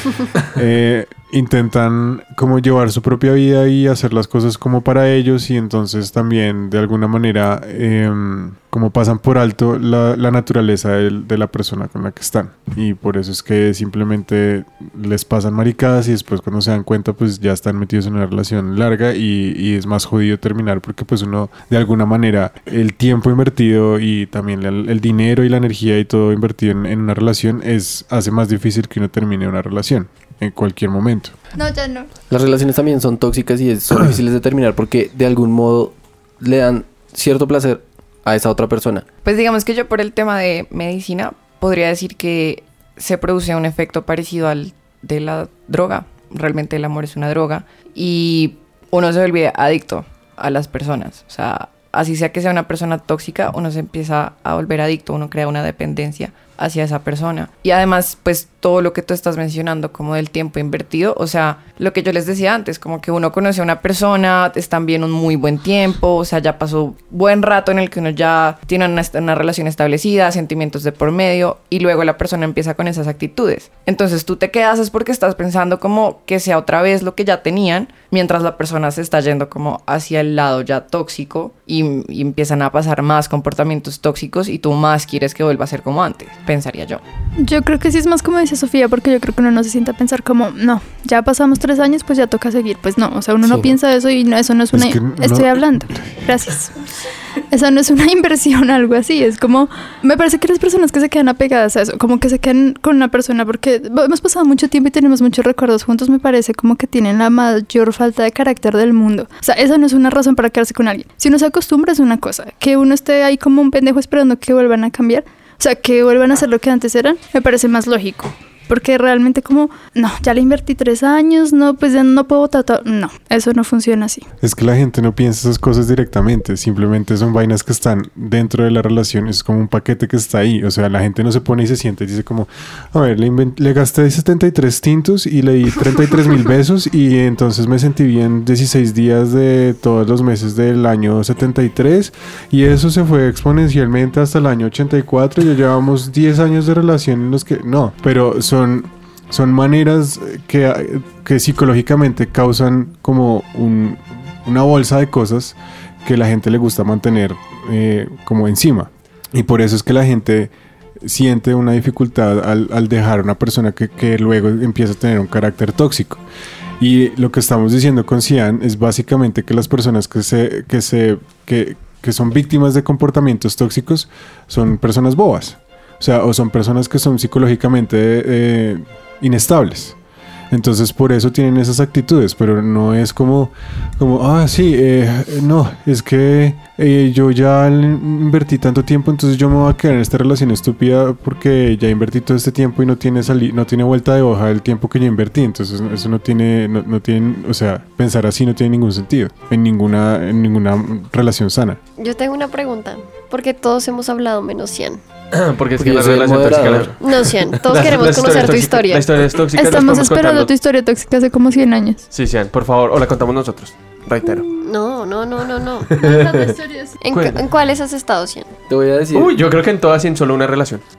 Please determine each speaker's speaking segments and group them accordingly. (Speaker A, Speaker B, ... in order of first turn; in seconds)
Speaker A: 0.3-31.3, 94.7-96.2, 124.4-166.2, 166.8-179.9, 180.5-201.8
Speaker B: 31.6-32.1, 87.4-96.7, 97.5-124.2, 209.6-212.0, 216.0-216.9
Speaker C: 32.3-39.0, 205.8-207.1, 218.7-219.3
Speaker D: 39.2-87.0
Speaker E: 202.0-205.0, 207.0-209.1, 214.6-216.0, 217.0-218.5
Speaker F: 205.3-210.5, 212.1-214.5, 215.8-216.6, 217.1-217.4, 219.1-220.8